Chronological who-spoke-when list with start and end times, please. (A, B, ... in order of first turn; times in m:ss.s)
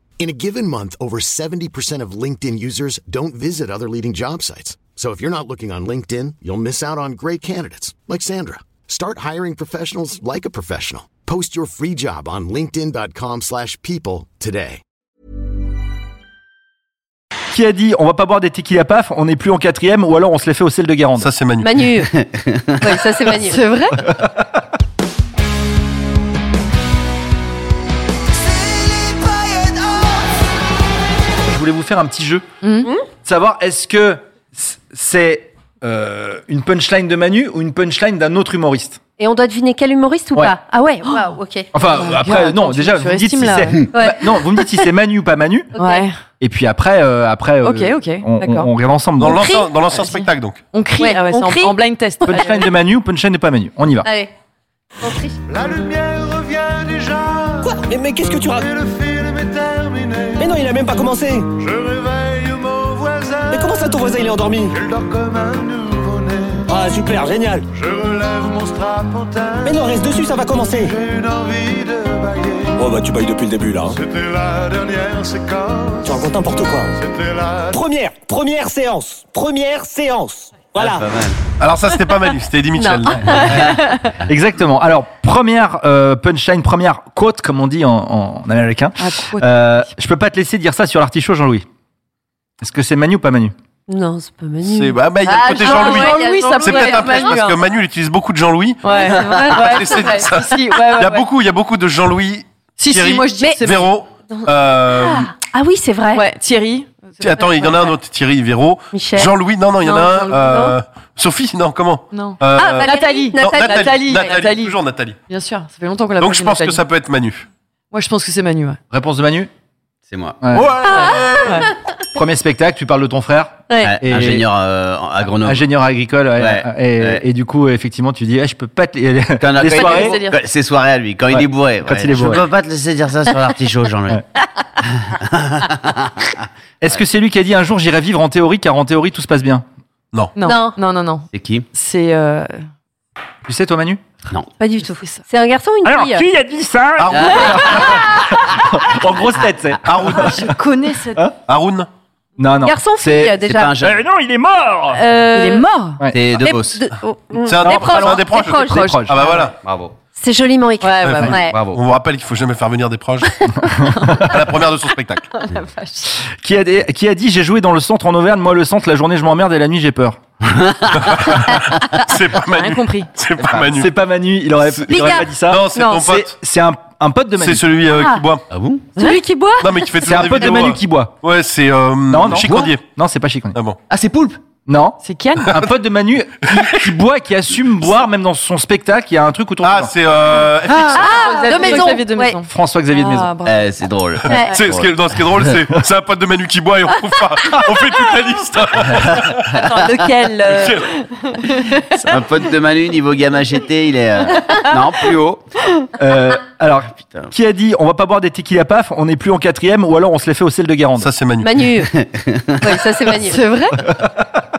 0:00.2-0:14.8 A
0:17.5-0:21.3 B
0:21.2-0:21.9 C
0:21.6-0:22.2 D
0:22.8-0:23.7 D
0:23.3-0:24.0 E
0:24.0-0:24.4 B
0:31.4-0:32.4 B
0:32.6-0:32.9 E
0:33.2-0:39.0 B
0:39.2-0:41.7 D
0:41.0-0:41.3 E
0:41.7-0:45.7 B
0:41.9-0:43.9 E
0:43.9-0:44.4 D
0:45.7-0:46.1 D
0:45.7-0:46.1 E
0:46.4-0:49.5 B
0:47.6-0:48.7 E
0:49.2-0:50.6 C
0:49.4-0:49.7 D
0:49.9-0:52.7 E
0:51.0-0:51.8 D
0:52.2-0:54.1 B
0:54.0-0:54.3 D
0:55.0-0:55.4 D
0:55.5-0:57.7 F
0:57.6-0:58.7 G
0:58.7-1:00.4 F
1:00.3-1:01.6 G
1:01.6-1:03.6 F
1:03.5-1:04.8 G
1:04.8-1:06.7 F
1:06.7-1:07.7 G
1:07.7-1:09.7 F
1:09.6-1:11.0 G
1:10.9-1:12.8 F
1:12.8-1:14.0 G
1:14.0-1:16.0 F
1:16.0-1:17.0 G
1:17.0-1:17.7 F
1:17.7-1:21.1 G
1:20.8-1:21.4 H
1:21.6-1:23.7 C
1:22.7-1:23.2 D
1:23.1-1:23.5 B
1:23.8-1:24.0 E
1:24.1-1:31.7 B
1:29.0-1:29.9 E
1:32.6-1:33.5 B
1:33.9-1:37.4 D
1:34.7-1:45.3 C
1:35.2-1:37.6 E
1:38.8-1:41.3 E
1:39.8-1:40.3 D
1:42.8-1:44.0 E
1:43.3-1:43.6 D
1:44.3-1:46.3 D
1:46.1-1:47.9 E
1:47.2-1:55.2 C
1:48.9-1:49.4 D
1:49.8-1:50.5 E
1:50.4-1:50.8 D
1:52.1-1:56.8 E
1:52.5-1:54.4 D
1:56.2-1:57.5 C
1:57.9-1:58.8 E
1:58.9-1:59.5 B
2:00.1-2:00.4 H
2:00.4-2:00.8 B
2:00.5-2:01.5 C
2:00.9-2:01.7 E
2:01.0-2:01.3 D
2:02.1-2:04.5 B
2:03.7-2:04.0 E
2:03.8-2:05.7 H
2:05.4-2:10.2 B
2:06.4-2:07.2 H
2:09.4-2:14.2 H
2:09.6-2:10.4 E
2:11.3-2:12.4 B
2:14.8-2:16.1 H
2:16.8-2:19.7 B
2:20.3-2:22.6 E
2:20.4-2:20.8 D
2:21.3-2:21.6 H
2:23.5-2:24.0 B
2:24.6-2:26.2 D
2:24.8-2:25.2 E
2:25.8-2:30.5 B
2:27.0-2:28.0 C
2:29.8-2:30.5 C
2:30.1-2:31.3 E
2:31.1-2:31.3 B
2:31.5-2:31.9 C
2:32.4-2:35.0 B
2:32.6-2:33.8 D
2:33.4-2:34.0 H
2:35.0-2:35.7 D
2:35.0-2:36.0 E
2:36.1-2:36.9 H
2:36.4-2:39.0 D
2:37.4-2:39.5 C
2:37.6-2:38.1 B
2:38.5-2:39.5 E
2:38.8-2:39.2 B
2:39.6-2:40.0 H
2:40.2-2:41.6 D
2:40.8-2:41.5 E
2:41.0-2:43.4 C
2:41.2-2:41.8 H
2:43.6-2:44.3 B
2:43.7-2:44.8 E
2:44.2-2:45.3 C
2:45.3-2:46.2 E
2:46.2-2:50.2 B
2:50.5-2:52.0 H
2:51.0-2:53.9 C
2:52.5-2:53.1 E
2:53.7-2:57.8 B
2:54.6-2:56.3 C
2:54.9-2:55.9 D
2:57.4-2:58.5 C
2:57.9-2:58.2 D
2:58.5-2:59.0 H
2:59.0-3:00.5 D
2:59.6-3:02.8 C
3:00.0-3:01.1 B
3:02.1-3:03.6 B
3:03.5-3:03.8 C
3:03.9-3:04.4 H
3:04.7-3:09.9 B
3:05.0-3:05.6 E
3:09.6-3:11.4 C
3:10.6-3:11.1 H
3:10.9-3:13.7 E
3:10.9-3:12.4 D
3:12.5-3:13.3 B
3:13.4-3:15.6 H
3:14.2-3:19.6 C
3:19.6-3:22.4 E
3:20.5-3:20.9 C
3:22.1-3:25.5 H
3:24.3-3:25.1 E
3:26.0-3:31.1 B
3:27.0-3:27.3 H
3:31.0-3:31.6 C
3:31.4-3:31.9 D
3:31.9-3:32.5 H
3:32.6-3:33.4 D
3:33.2-3:33.8 E
3:33.8-3:34.4 B